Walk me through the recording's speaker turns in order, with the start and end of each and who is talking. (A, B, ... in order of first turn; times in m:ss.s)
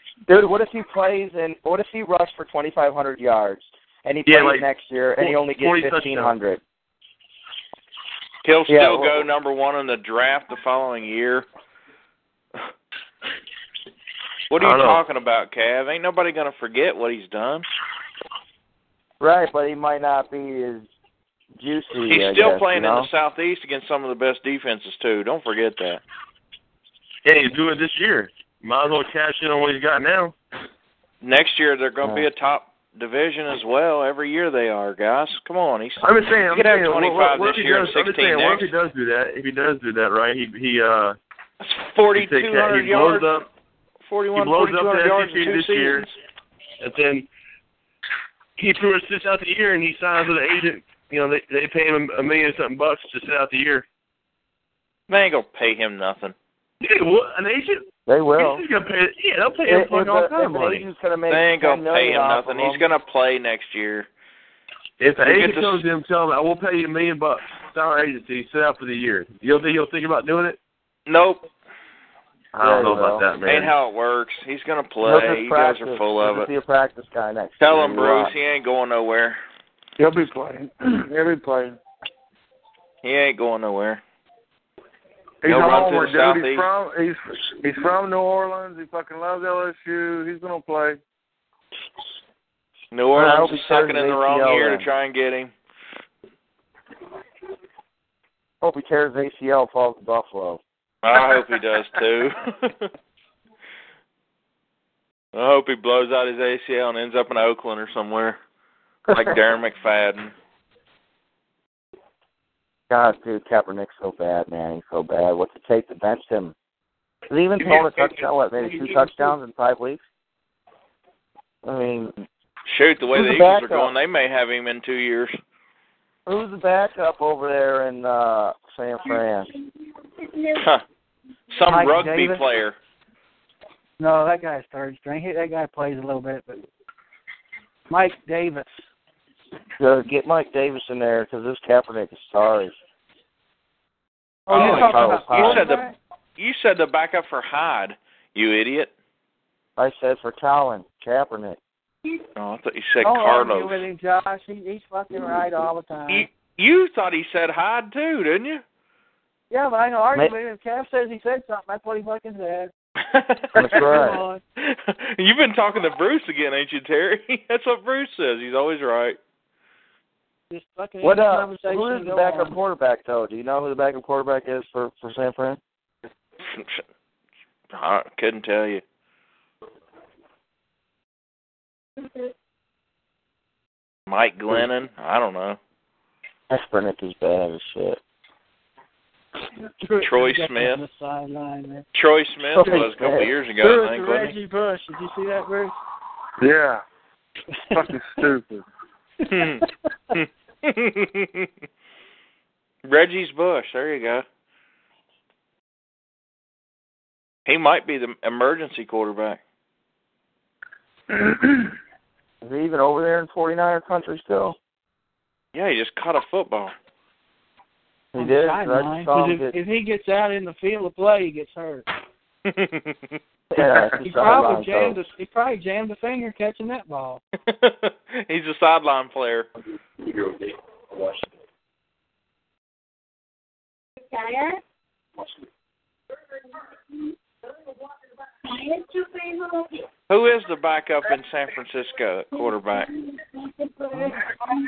0:00.3-0:06.6 A
0:04.3-0:04.7 B
0:05.2-0:06.4 B
0:08.4-0:11.5 C
0:08.7-0:09.3 A
0:14.5-0:17.6 C
0:14.6-0:15.0 B
0:19.2-0:20.9 A
0:21.6-0:23.1 A
0:22.1-0:26.0 C
0:27.2-0:30.4 B
0:31.2-0:38.7 C
0:36.0-0:41.2 B
0:41.6-0:43.4 C
0:42.1-0:43.5 B
0:44.1-0:46.1 C
0:44.4-0:46.1 B
0:46.8-0:47.3 B
0:48.6-0:53.9 B
0:55.1-0:56.4 C
0:56.8-1:00.9 B
0:58.1-0:58.6 A
0:59.7-1:02.8 A
1:01.3-1:04.1 C
1:05.0-1:10.6 B
1:05.2-1:05.8 C
1:11.1-1:11.5 C
1:12.5-1:13.7 B
1:12.6-1:13.3 A
1:13.4-1:16.5 C
1:15.0-1:18.3 A
1:17.6-1:19.4 C
1:20.0-1:21.8 D
1:23.0-1:24.0 C
1:25.4-1:31.0 D
1:25.5-1:26.7 C
1:32.9-1:35.5 C
1:33.1-1:34.9 A
1:38.6-1:40.6 A
1:41.0-1:42.9 C
1:45.3-1:48.4 C
1:49.1-1:50.3 C
1:52.9-1:56.6 A
1:57.3-2:00.0 A
1:57.6-1:59.4 B
2:01.6-2:02.2 A
2:02.7-2:05.4 C
2:03.1-2:03.9 A
2:06.3-2:09.5 A
2:10.2-2:10.6 E
2:10.6-2:10.8 C
2:11.5-2:12.8 C
2:11.7-2:12.4 F
2:14.0-2:16.6 F
2:17.9-2:18.9 F
2:19.8-2:22.7 A
2:24.5-2:26.0 F
2:24.5-2:28.9 C
2:24.5-2:25.7 A
2:29.8-2:31.6 A
2:32.4-2:33.8 C
2:33.0-2:36.3 F
2:36.1-2:38.6 C
2:39.5-2:42.7 F
2:43.0-2:49.2 C
2:43.6-2:44.2 A
2:43.6-2:44.4 F
2:50.5-2:52.6 F
2:51.0-2:55.6 A
2:56.5-2:56.8 C
2:57.7-2:58.8 C
3:04.1-3:05.6 C
3:06.5-3:08.0 A
3:09.8-3:11.9 F
3:10.0-3:10.8 C
3:11.9-3:14.3 C
3:12.6-3:13.3 A
3:12.6-3:12.9 F
3:13.6-3:15.8 F
3:16.4-3:16.8 D
3:17.7-3:18.6 D
3:19.3-3:19.6 F
3:19.3-3:21.5 C
3:22.8-3:24.2 C
3:27.5-3:29.4 C
3:32.4-3:34.6 A
3:35.5-3:36.7 C
3:38.1-3:39.6 A
3:38.2-3:41.9 F
3:42.5-3:43.2 C
3:43.5-3:45.0 A
3:44.0-3:47.2 F
3:47.4-3:49.5 C
3:54.1-3:54.6 E
3:58.4-3:59.9 E
4:00.1-4:02.9 C
4:02.3-4:04.3 E